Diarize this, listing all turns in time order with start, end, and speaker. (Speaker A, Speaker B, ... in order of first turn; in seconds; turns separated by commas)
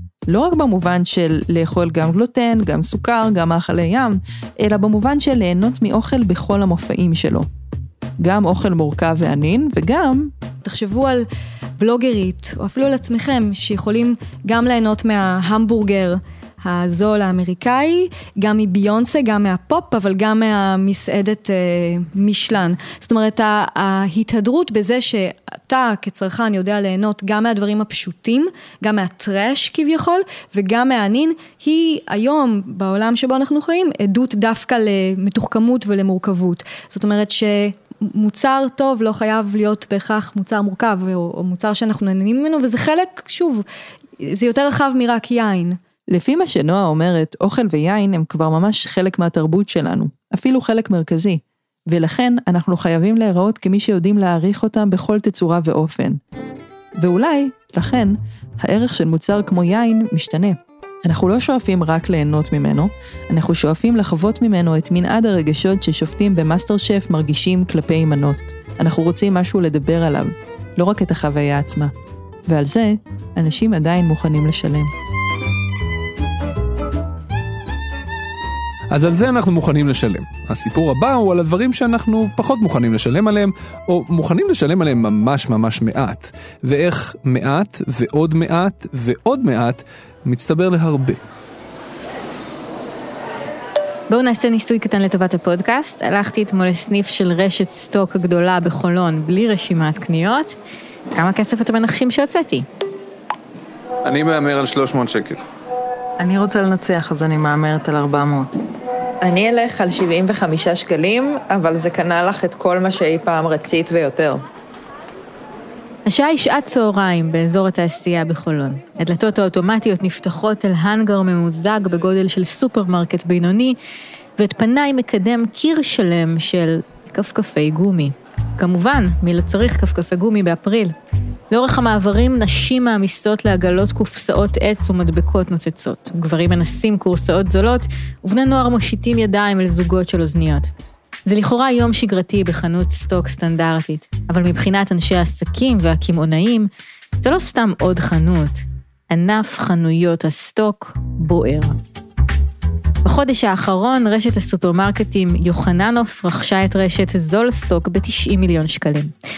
Speaker A: 0.3-7.5, Speaker A: 8.2-10.3, Speaker B: 10.6-11.3, Speaker B: 11.8-43.6, Speaker B: 44.3-45.8, Speaker A: 46.1-56.2, Speaker A: 57.0-71.9, Speaker A: 72.5-74.9, Speaker C: 78.9-91.2, Speaker D: 94.1-100.6, Speaker D: 101.1-102.7, Speaker C: 104.0-105.4, Speaker A: 106.2-108.5, Speaker A: 109.2-114.4, Speaker D: 116.1-123.8, Speaker D: 124.4-130.9, Speaker D: 131.5-140.7, Speaker D: 141.3-151.8, Speaker D: 153.0-159.1